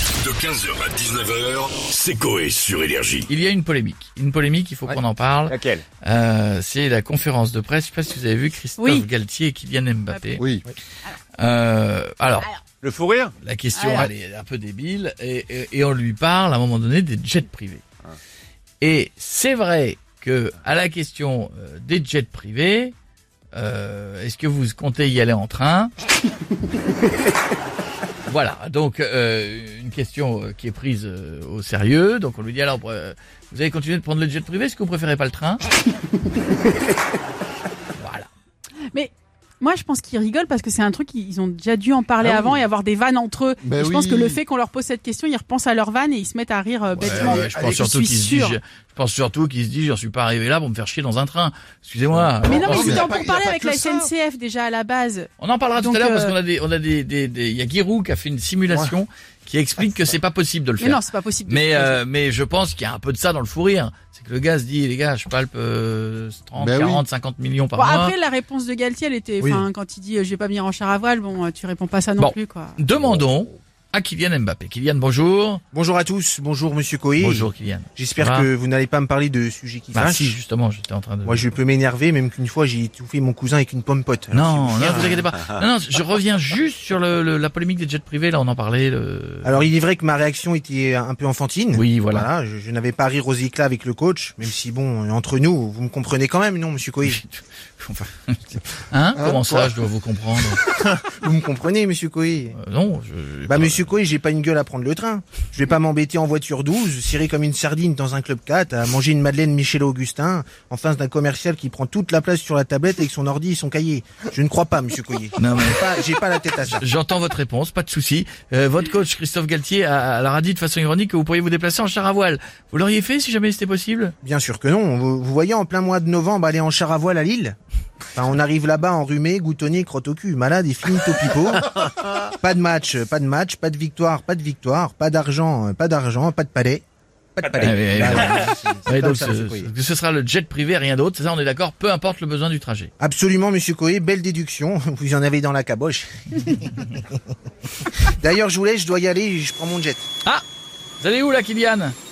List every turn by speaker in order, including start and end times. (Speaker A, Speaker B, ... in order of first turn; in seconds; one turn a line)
Speaker A: 0.2-3.3
Speaker B: 3.3-10.4
Speaker C: 8.8-9.0
Speaker C: 10.1-10.4
Speaker D: 10.4-10.7
Speaker B: 11.3-12.5
Speaker B: 13.4-17.8
Speaker C: 13.7-14.1
Speaker B: 18.8-22.9
Speaker B: 23.5-25.9
Speaker B: 28.2-35.6
Speaker B: 38.0-38.3
Speaker C: 38.9-48.5
Speaker D: 42.2-42.6
Speaker D: 43.6-44.4
Speaker B: 46.9-53.2
Speaker D: 47.0-47.6
Speaker D: 52.4-54.1
Speaker C: 52.5-56.4
Speaker B: 55.4-68.1
Speaker C: 60.8-62.0
Speaker D: 66.6-67.0
Speaker C: 67.7-72.8
Speaker B: 72.2-75.6
Speaker E: 75.7-80.4
Speaker B: 77.2-78.5
Speaker B: 79.9-81.6
Speaker E: 81.2-85.3
Speaker B: 84.3-89.7
Speaker E: 89.4-97.2
Speaker B: 91.7-92.3
Speaker B: 97.0-100.6
Speaker D: 99.2-99.7
Speaker E: 100.6-102.6
Speaker B: 102.5-104.0
Speaker E: 103.5-116.8
Speaker B: 115.4-116.1
Speaker B: 116.6-124.1
Speaker E: 124.2-127.5
Speaker E: 128.1-136.8
Speaker E: 137.3-139.7
Speaker B: 137.6-142.9
Speaker E: 143.0-147.1
Speaker E: 148.0-150.1
Speaker B: 151.0-151.9